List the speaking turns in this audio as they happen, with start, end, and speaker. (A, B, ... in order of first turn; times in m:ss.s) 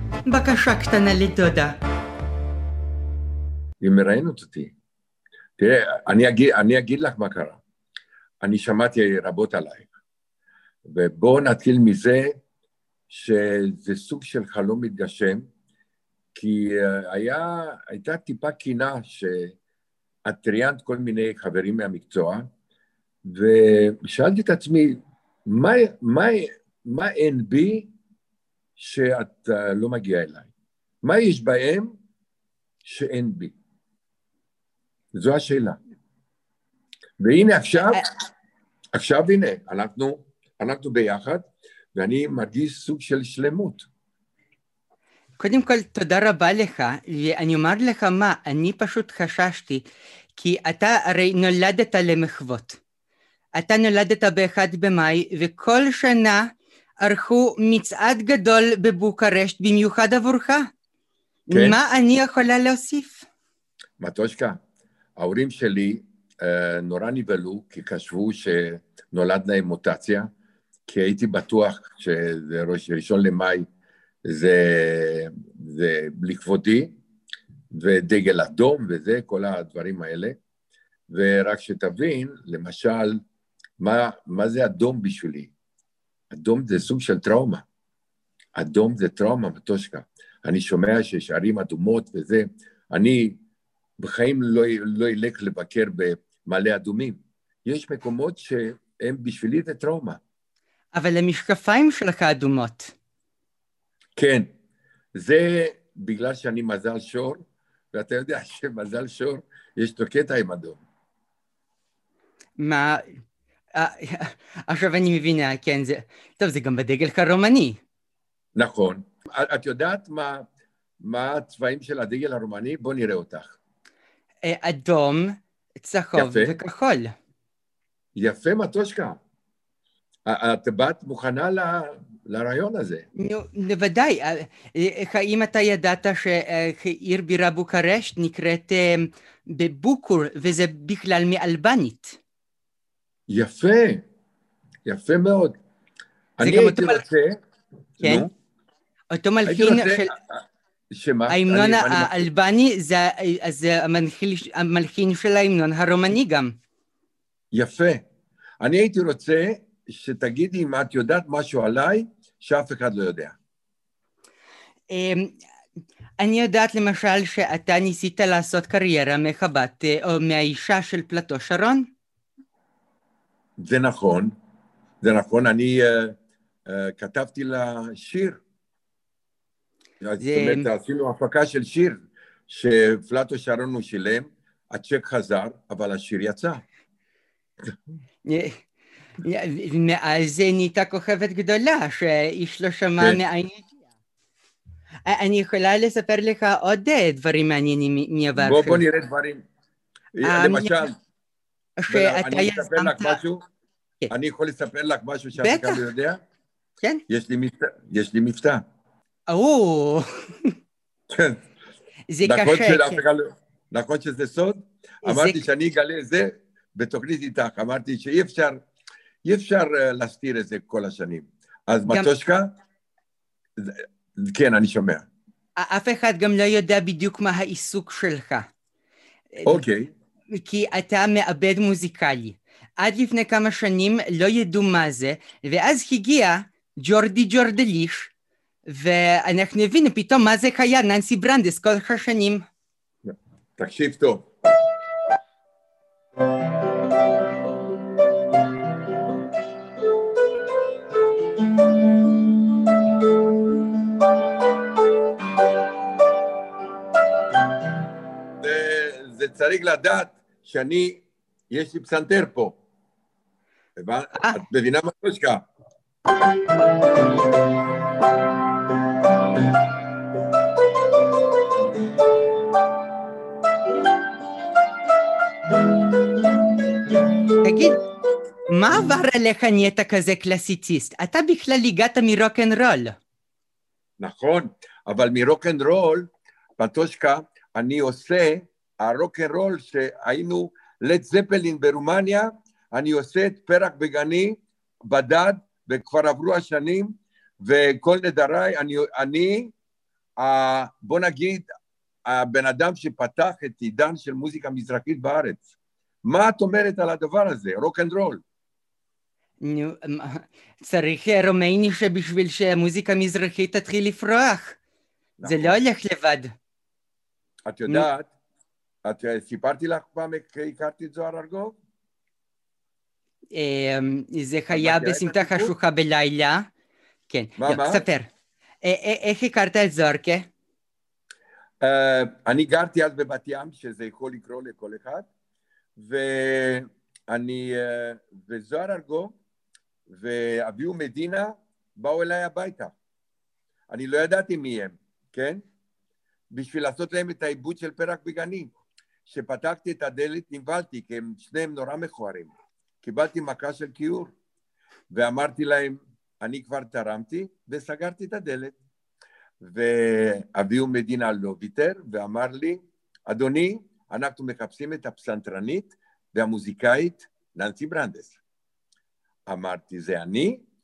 0:00.3-0:01.8 A
0:03.8-0:04.8 B
0:05.6-0:07.6 B
0:08.4-0:09.9 B
0:10.8-0:12.4 B
0:13.1-0:15.4 B
0:16.4-0:19.6 B
0:20.3-0:22.5 B
0:23.2-0:27.9 B
0:28.8-0:30.5 B
0:31.0-0:31.9 B
0:32.8-0:33.6 B
0:35.1-0:35.8 B
0:37.2-0:38.0 B
0:38.9-0:43.9 B
0:45.4-0:49.8 A
0:50.4-0:52.8 A
0:53.6-1:00.7 A
1:01.5-1:03.3 A
1:01.5-1:01.8 B
1:04.0-1:04.6 B
1:05.2-1:10.3 B
1:10.9-1:13.7 B
1:14.2-1:17.0 B
1:17.7-1:20.4 B
1:21.1-1:23.2 B
1:23.8-1:25.5 B
1:26.3-1:27.6 B
1:28.6-1:33.4 B
1:34.0-1:40.2 B
1:40.9-1:42.9 A
1:44.2-1:44.5 B
1:45.2-1:50.8 B
1:52.6-1:53.2 A
1:53.7-1:57.8 A
1:58.6-2:00.5 B
2:01.0-2:03.6 B
2:04.4-2:07.1 A
2:06.2-2:06.6 B
2:08.2-2:09.2 B
2:10.3-2:13.1 B
2:13.2-2:22.2 A
2:23.3-2:24.0 B
2:24.8-2:25.6 B
2:26.4-2:27.4 B
2:26.4-2:27.0 A
2:28.0-2:28.3 B
2:28.0-2:28.3 A
2:29.1-2:30.1 A
2:29.4-2:30.4 B
2:30.9-2:32.3 B
2:31.3-2:36.5 A
2:37.5-2:38.0 B
2:38.6-2:43.4 B
2:44.9-2:45.4 A
2:46.2-2:51.9 A
2:53.6-2:54.3 B
2:55.0-2:56.2 B
2:56.7-2:58.4 B
3:00.0-3:06.6 B
3:00.2-3:00.7 A
3:08.2-3:08.6 A
3:09.2-3:13.7 A
3:15.1-3:18.8 A
3:18.4-3:19.4 B
3:20.2-3:21.0 B
3:20.2-3:20.8 A
3:21.8-3:23.2 A
3:21.9-3:23.4 B
3:24.1-3:26.2 B
3:25.4-3:25.8 A
3:27.1-3:28.6 B
3:29.3-3:30.5 A
3:31.1-3:31.4 B
3:32.1-3:33.0 A
3:32.2-3:38.6 B
3:35.0-3:35.5 A
3:39.2-3:42.5 B
3:43.6-3:45.1 B
3:45.6-3:48.5 A
3:49.3-3:49.6 A
3:49.4-3:49.9 B
3:50.3-3:58.1 A
3:58.7-4:02.4 A
4:03.0-4:04.3 B
4:18.4-4:22.6 B
4:23.8-4:25.5 B
4:24.2-4:24.4 A
4:37.4-4:37.8 A
4:38.5-4:43.0 A
4:44.0-4:59.5 B
5:00.2-5:01.5 B
5:02.1-5:05.5 B
5:06.0-5:08.2 B
5:09.4-5:14.6 A
5:15.2-5:15.6 B
5:15.2-5:16.3 A
5:17.5-5:18.1 B
5:18.8-5:21.6 B
5:23.3-5:26.5 A
5:24.5-5:25.5 B
5:27.1-5:28.1 A
5:27.4-5:27.9 B
5:28.6-5:30.3 A
5:31.6-5:35.1 B
5:35.8-5:39.2 B
5:39.9-5:42.8 B
5:43.7-5:45.4 B
5:46.3-5:48.5 B
5:49.1-5:54.1 B
5:54.9-5:58.6 B
5:59.4-6:08.2 B
6:09.3-6:10.4 B